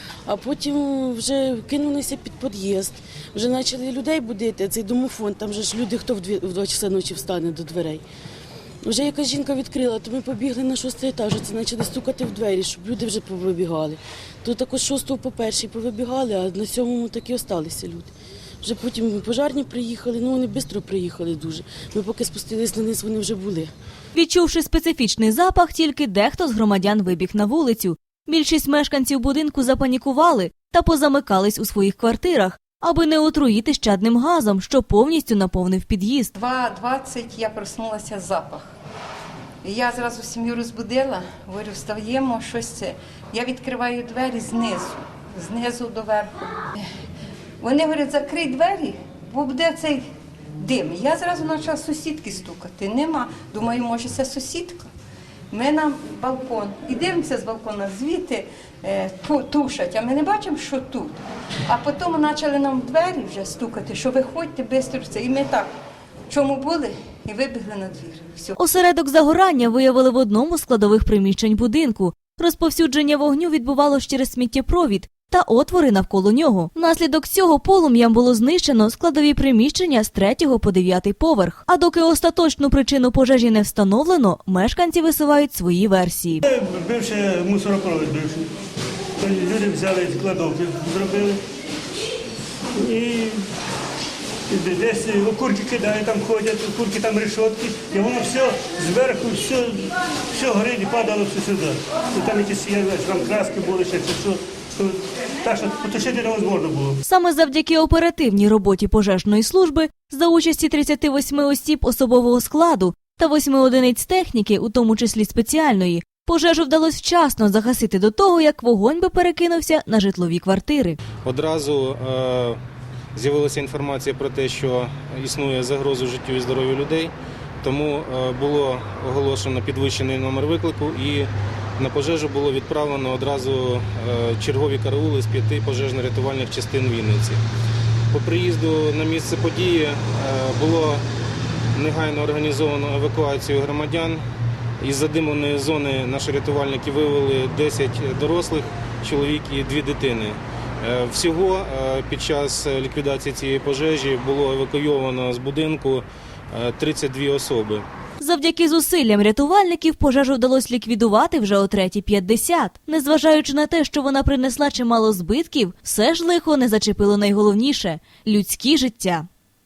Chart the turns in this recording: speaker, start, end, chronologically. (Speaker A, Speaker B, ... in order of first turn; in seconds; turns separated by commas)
Speaker A: 0.3-8.0, Speaker A: 8.8-23.7, Speaker B: 24.1-36.3, Speaker C: 36.4-38.7, Speaker C: 39.6-46.9, Speaker C: 47.6-50.0, Speaker C: 50.6-54.9, Speaker C: 55.5-65.7, Speaker C: 66.3-68.5, Speaker B: 68.6-86.4, Speaker D: 86.4-88.5, Speaker D: 89.2-91.4, Speaker D: 92.8-93.4, Speaker D: 94.5-107.0, Speaker B: 107.0-121.0, Speaker E: 121.2-122.6, Speaker E: 123.1-137.4, Speaker E: 138.1-141.0, Speaker E: 141.8-144.2, Speaker E: 144.8-157.8, Speaker B: 158.2-169.3